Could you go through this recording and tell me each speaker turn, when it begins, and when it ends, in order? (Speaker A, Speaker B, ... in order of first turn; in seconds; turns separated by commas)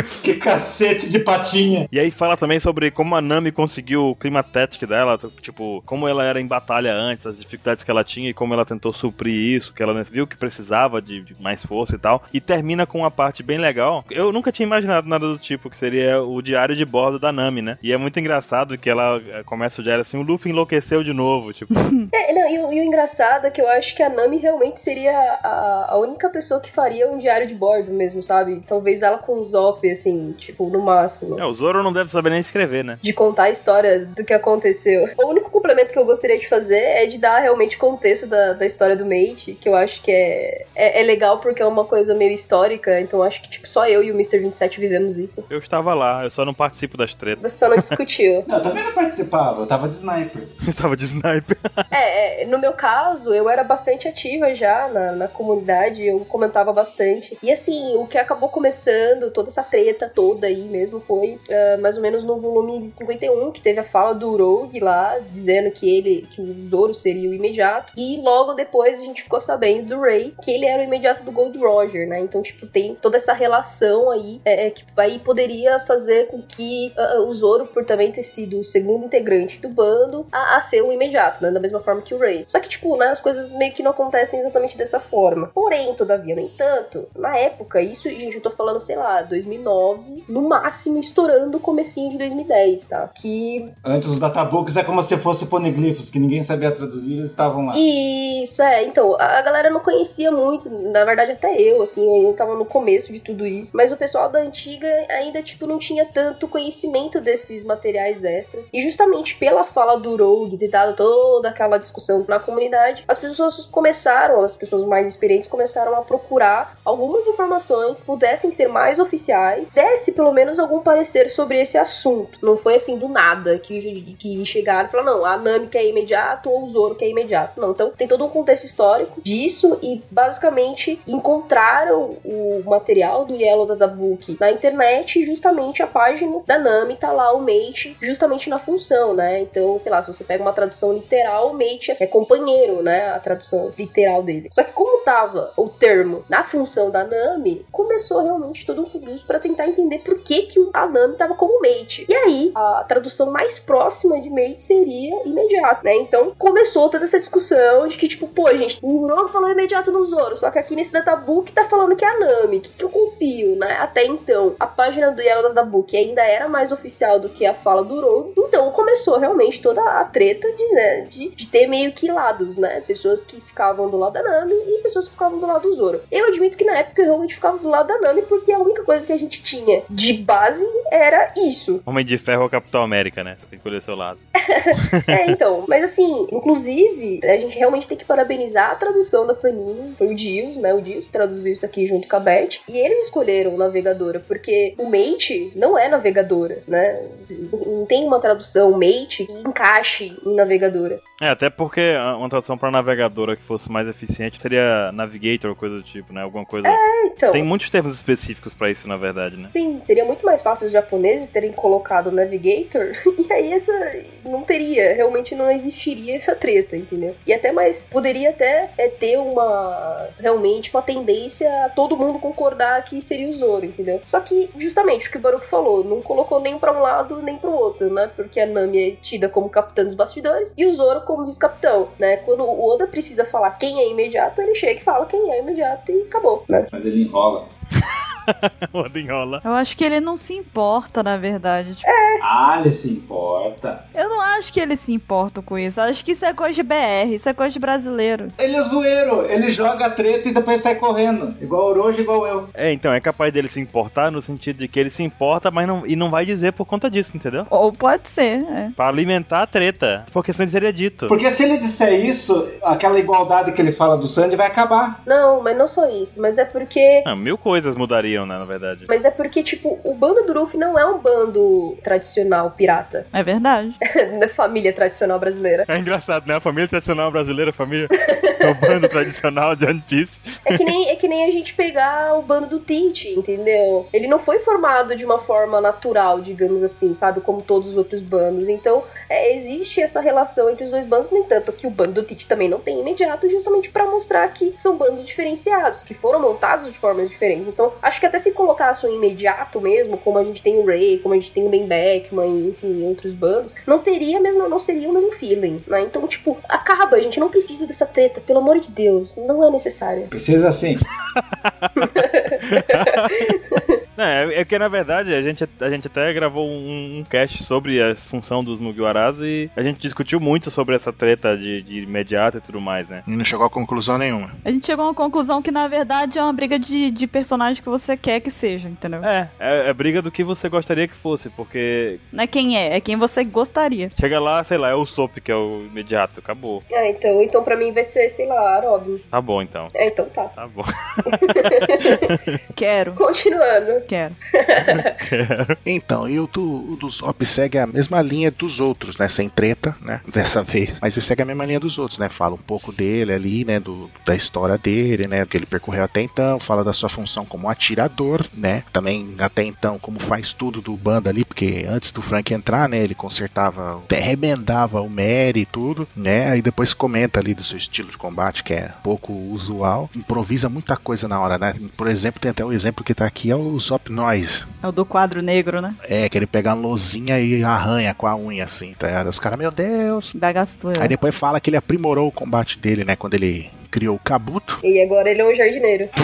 Speaker A: 0.2-1.9, Speaker B: 1.9-21.7, Speaker C: 21.8-22.1, Speaker D: 22.1-31.4, Speaker B: 31.4-33.0, Speaker D: 33.0-45.5, Speaker B: 45.5-47.9, Speaker D: 47.4-48.5, Speaker A: 48.5-50.5, Speaker B: 50.6-51.8, Speaker D: 51.9-93.7, Speaker A: 93.8-97.8, Speaker D: 97.7-181.8, Speaker B: 181.9-184.2, Speaker D: 184.5-201.0, Speaker B: 184.7-185.0, Speaker B: 201.2-206.8, Speaker D: 206.6-207.4, Speaker B: 207.3-209.5, Speaker D: 209.5-236.7, Speaker A: 236.7-237.5, Speaker B: 237.8-239.4, Speaker C: 239.4-241.8, Speaker D: 241.8-242.2, Speaker A: 242.2-243.8, Speaker C: 243.9-248.3, Speaker A: 248.4-252.5, Speaker B: 252.6-257.5, Speaker C: 257.5-258.7, Speaker B: 258.8-261.1, Speaker A: 261.1-265.0, Speaker D: 265.1-267.1, Speaker B: 267.0-268.9, Speaker D: 268.9-273.1, Speaker C: 273.1-273.8, Speaker D: 274.0-275.7, Speaker B: 275.7-280.6, Speaker D: 278.1-278.9, Speaker D: 280.5-310.1, Speaker A: 310.1-310.8, Speaker B: 311.1-311.9, Speaker D: 311.8-313.7, Speaker B: 312.4-313.2, Speaker B: 314.0-323.0, Speaker E: 323.1-324.3, Speaker C: 324.4-329.1, Speaker B: 329.0-332.0, Speaker C: 332.1-333.9, Speaker B: 334.0-336.6, Speaker D: 336.7-339.0, Speaker B: 339.1-339.7, Speaker D: 339.7-340.3, Speaker B: 340.4-342.4, Speaker D: 341.1-342.1, Speaker C: 342.5-343.0, Speaker D: 343.0-344.9, Speaker C: 343.9-344.2, Speaker B: 344.8-345.6, Speaker E: 345.6-374.5, Speaker C: 374.6-375.8, Speaker E: 375.8-380.1, Speaker C: 380.1-380.9, Speaker E: 380.8-384.6, Speaker D: 384.6-385.9